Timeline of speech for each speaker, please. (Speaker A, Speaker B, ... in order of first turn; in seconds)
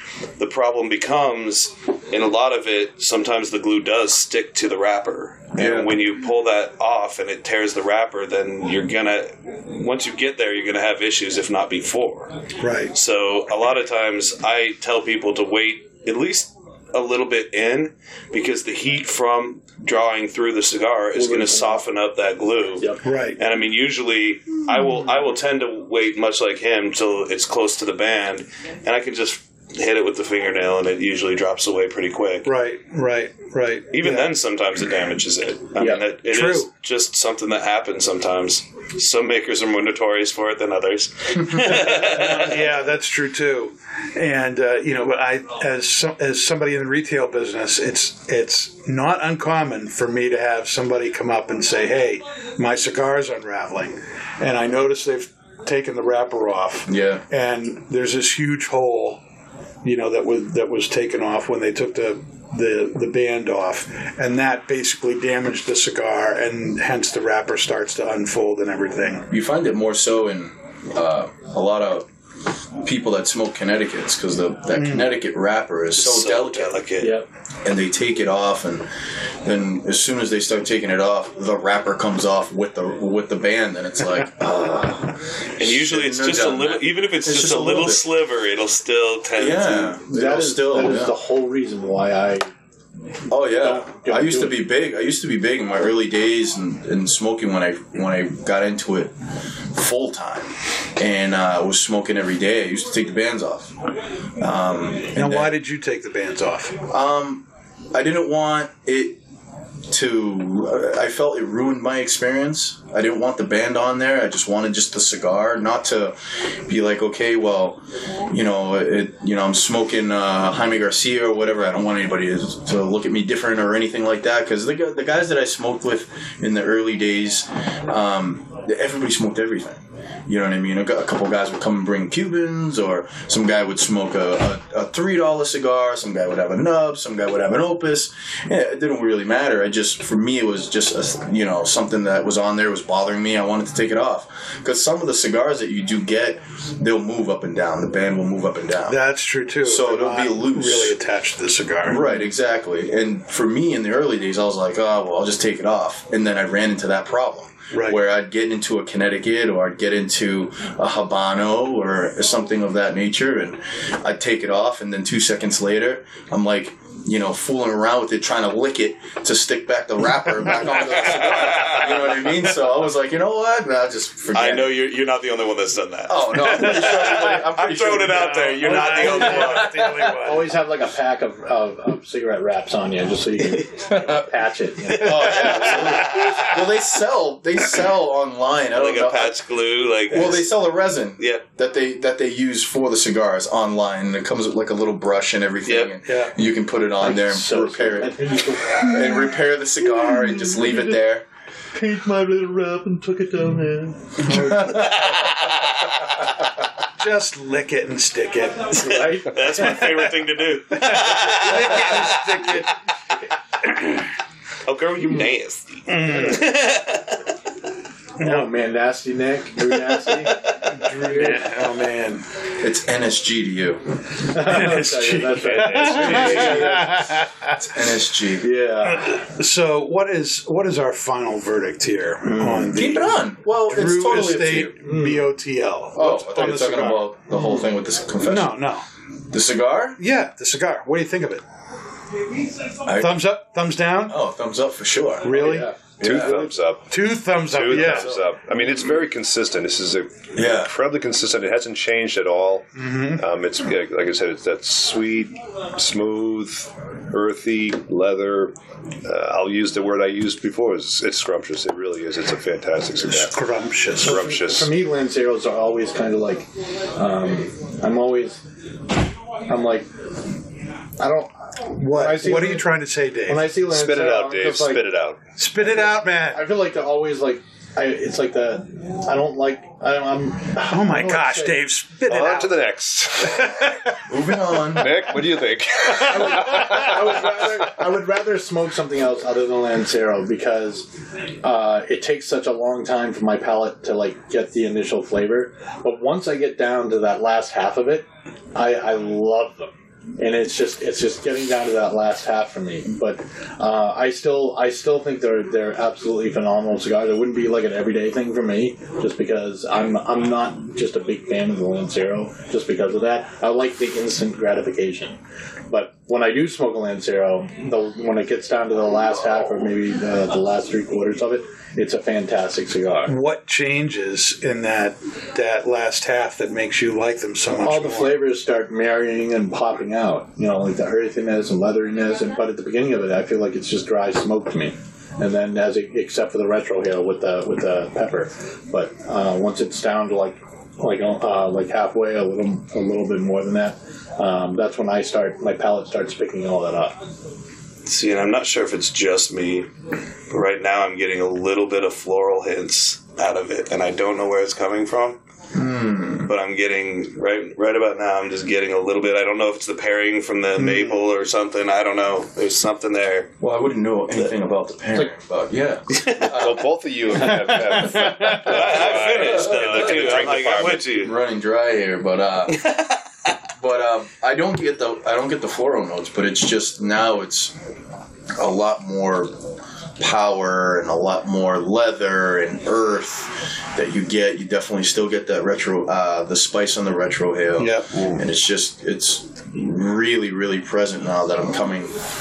Speaker A: 0.4-12.3, 12.9-32.5, 33.9-42.6, 76.0-77.2, 85.6-90.0, 171.0-171.8, 174.3-180.2, 185.0-186.5, 188.7-190.5, 191.2-191.4, 195.6-195.9, 201.8-203.9, 204.6-205.9, 208.8-212.6, 214.6-217.2, 347.9-349.7, 350.3-355.2, 356.2-363.3, 365.9-366.3, 368.4-371.1, 372.6-373.0
Speaker B: 5.5-6.0, 56.9-57.2, 69.3-72.1, 72.8-76.8, 77.6-78.9, 79.4-88.0, 89.3-91.1, 93.3-99.1, 99.7-103.7, 104.4-105.5, 106.9-109.2, 109.9-149.0, 149.6-150.9, 151.8-174.7, 176.1-179.2, 185.0-189.5, 190.1-201.2, 204.3-205.0, 222.6-223.8, 225.8-226.8, 227.6-228.5, 232.7-234.8, 235.9-238.6, 239.3-240.0, 242.8-243.2, 244.1-246.4, 247.7-248.2, 250.3-250.7, 284.1-285.1, 355.5-356.3, 363.4-366.7, 368.6-370.2, 370.9-372.6, 373.6-377.5, 378.3-379.4, 380.0-392.0
Speaker C: 12.6-12.9, 23.0-23.4, 32.4-34.3, 36.2-36.7, 41.7-59.2, 59.8-69.3, 74.7-75.2, 105.1-106.8, 148.9-152.1, 157.7-158.0, 176.4-177.3, 178.0-180.6, 196.0-196.3, 204.2-205.1, 207.0-210.0, 210.7-212.7, 215.9-216.5, 218.2-218.5, 220.4-222.3, 224.3-227.7, 228.8-237.1, 238.2-238.8, 240.0-241.4, 242.9-244.2, 245.2-248.2, 252.8-253.2, 263.1-264.3, 271.7-273.5, 275.4-276.5, 280.6-282.7, 283.2-283.9, 323.1-328.2, 360.6-361.0, 367.3-368.6, 387.6-388.1
Speaker D: 21.1-21.8, 22.8-23.0, 35.8-36.0, 77.0-77.3, 90.1-92.5, 93.4-94.6, 178.9-179.5, 180.1-186.1, 197.0-199.2, 201.8-203.4, 208.7-209.8, 218.2-221.7, 224.3-227.0, 228.4-229.1, 232.2-232.7, 234.8-235.3, 245.3-246.0, 264.0-268.4, 269.4-269.9, 271.0-272.7, 273.2-274.9, 275.6-281.6, 286.1-290.9, 291.4-323.1, 327.5-347.1
Speaker E: 246.0-263.4, 264.0-264.7, 273.7-275.2, 282.1-283.5, 284.7-287.3, 366.2-370.9